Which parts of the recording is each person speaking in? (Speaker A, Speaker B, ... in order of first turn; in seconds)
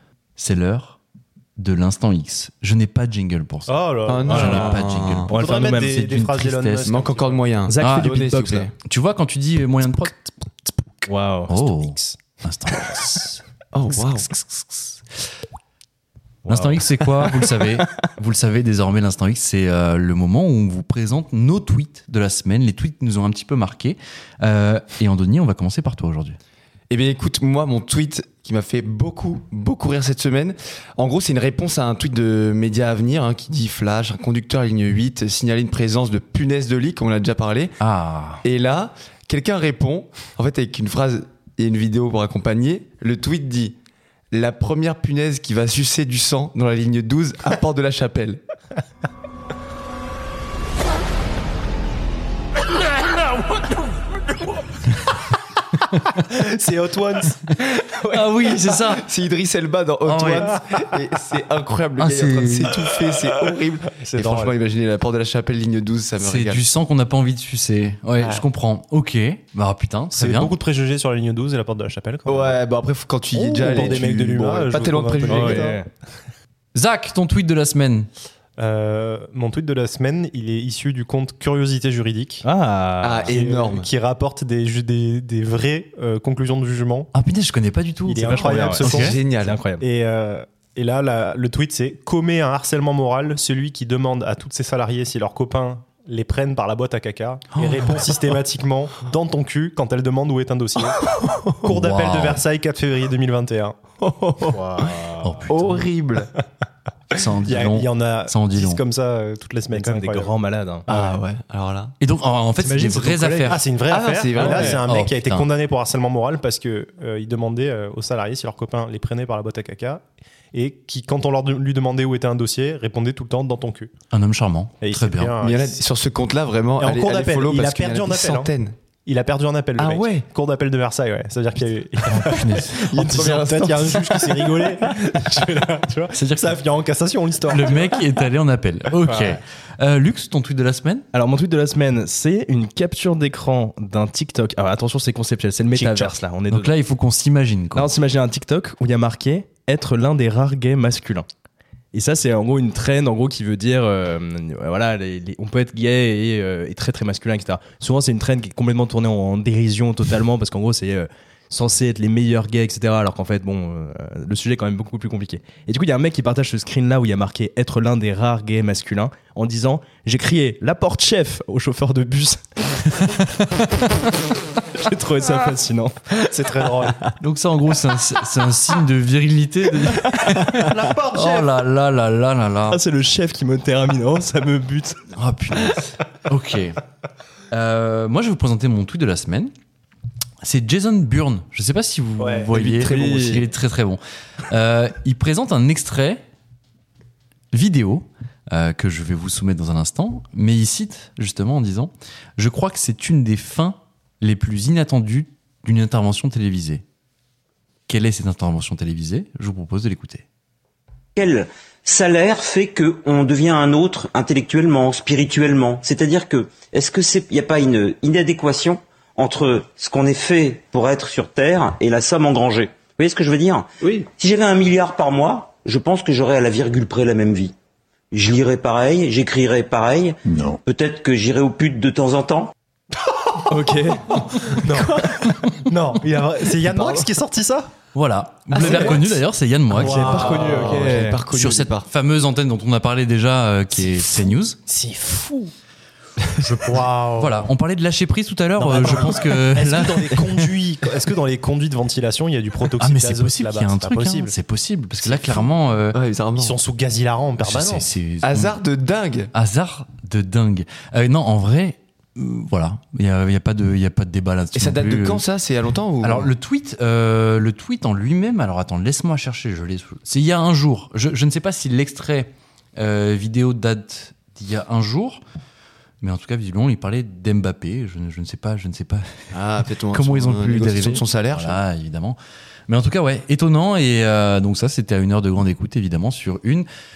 Speaker A: 0.4-1.0, 1.6-6.9, 7.8-8.1, 8.8-15.0, 16.5-26.4, 37.8-38.4, 58.1-59.0, 60.0-60.5, 62.0-62.7, 66.2-70.5, 76.7-78.1, 87.1-89.2, 97.6-98.1, 101.7-102.4, 105.2-105.8, 107.1-108.8, 112.0-113.6, 114.8-115.5, 124.1-125.3, 132.0-132.8, 136.1-136.6, 137.5-141.1, 145.7-147.9, 177.2-182.8, 185.1-186.8, 187.5-189.5, 190.4-196.2, 197.5-206.8, 207.9-210.2, 237.9-240.4, 241.3-244.6, 246.4-250.5, 252.8-256.0, 257.4-258.6, 259.3-265.2, 266.0-275.2, 276.0-279.1, 279.9-282.2, 282.7-286.7
Speaker B: 3.7-4.8, 5.3-7.4, 11.5-12.2, 56.1-57.6, 64.0-64.5, 70.1-72.6, 73.3-75.8, 78.6-82.5, 83.3-87.1, 88.0-89.2, 89.8-101.0, 101.6-103.7, 107.4-110.3, 113.4-120.0, 120.5-123.9, 124.8-125.8, 126.8-128.5, 129.1-138.0, 139.1-139.4, 176.2-177.0, 180.5-181.5, 192.2-192.5, 234.5-237.7, 238.6-239.0, 239.8-240.8, 244.7-245.5, 246.6-247.5, 248.6-254.3, 256.4-257.9
Speaker C: 4.0-5.3, 6.8-8.7, 13.7-14.3, 26.9-37.7, 38.4-43.8, 44.3-48.4, 58.8-66.6, 72.3-75.8, 83.0-83.9, 88.8-89.6, 101.0-101.4, 104.0-104.6, 105.5-106.3, 110.9-111.9, 113.9-114.8, 125.4-128.7, 129.8-130.2, 132.8-134.3, 236.7-237.1, 238.5-239.1, 239.7-241.9, 255.9-256.6, 258.2-259.3, 264.5-266.3, 279.3-281.6
Speaker D: 4.2-6.0, 7.7-8.7, 11.1-11.5, 16.4-17.8, 75.3-75.9, 82.4-83.3, 88.2-89.8, 104.5-105.4, 109.7-111.1, 112.6-113.6, 114.3-114.8, 141.1-146.7, 147.7-151.2, 151.9-176.2, 179.9-180.6, 182.7-185.0, 192.5-193.4, 233.4-235.0, 238.6-238.9, 239.8-241.2
Speaker E: 211.2-227.5, 228.1-232.5